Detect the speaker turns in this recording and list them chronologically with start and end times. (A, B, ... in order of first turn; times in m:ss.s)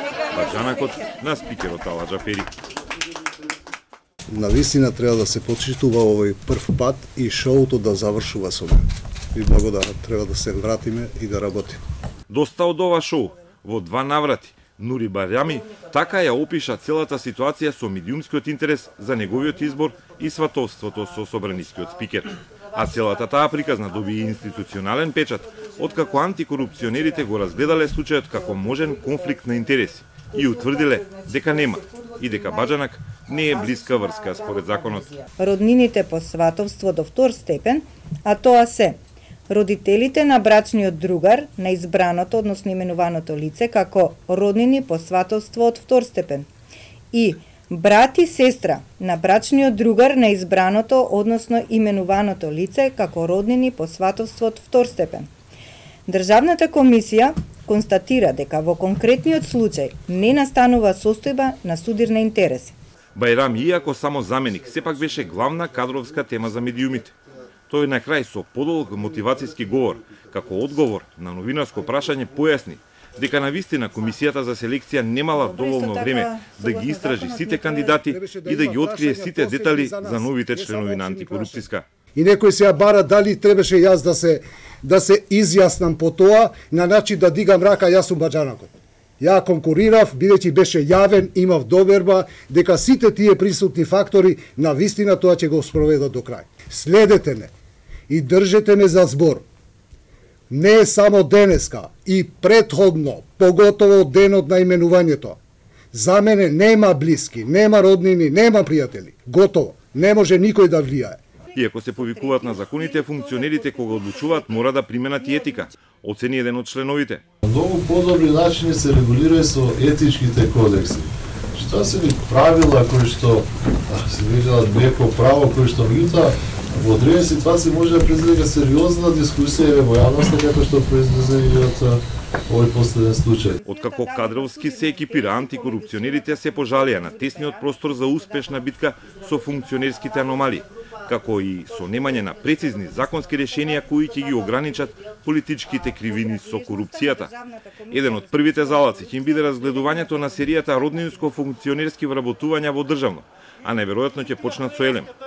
0:00.3-0:02.5 A
0:04.3-0:11.8 B
0:12.3-0:35.2 A
0:35.4-0:39.0 C
0:39.5-0:46.5 C
0:47.1-0:55.3 C
0:56.0-1:02.7 C
1:03.1-1:07.1 A
1:07.7-1:21.8 A
1:15.3-1:18.0 C
1:18.0-1:37.5 B
1:38.1-1:39.4 B
1:40.5-1:45.4 B
1:45.9-1:51.2 B
1:51.5-1:57.2 A
1:52.0-1:54.5 C
1:57.4-2:13.6 D
2:13.6-2:18.7 C
2:13.6-2:27.3 A
2:25.9-2:30.2 C
2:27.9-2:35.1 A